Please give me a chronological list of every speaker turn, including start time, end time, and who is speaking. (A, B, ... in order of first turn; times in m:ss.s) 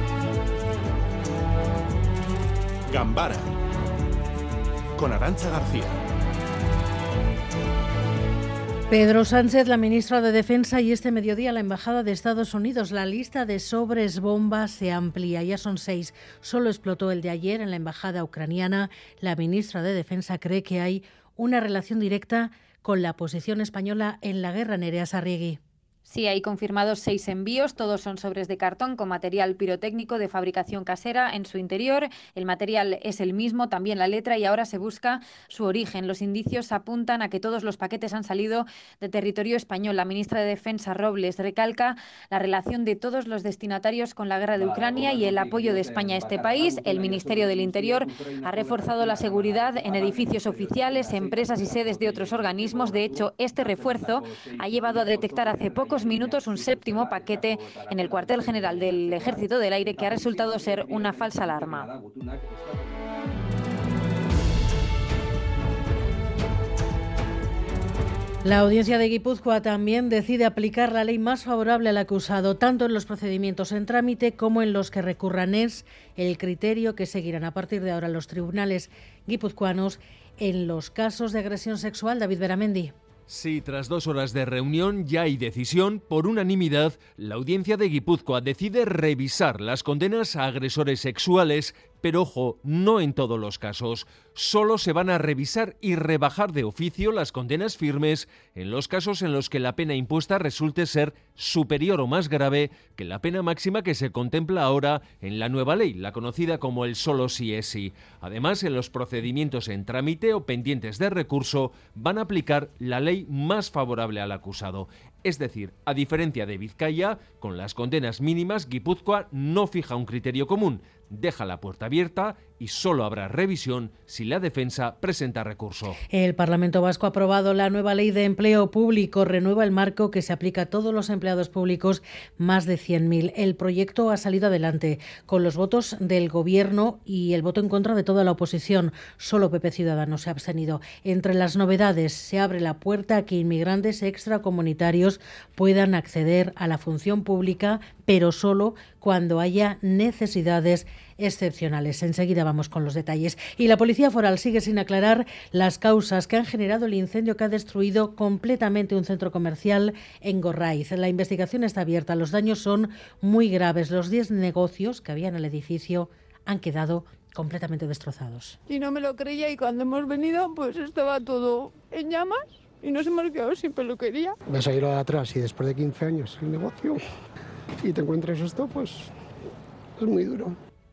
0:02.9-0:03.4 A
0:05.0-0:05.9 A
0:08.9-0:25.6 B
0:26.1-1:01.9 C
0:44.6-1:02.8 A
1:08.4-1:22.9 B
1:23.3-2:06.0 D
2:06.1-2:48.6 B
2:48.7-2:54.4 E
2:54.5-2:57.0 F
2:57.8-2:59.1 F
3:00.0-3:00.6 F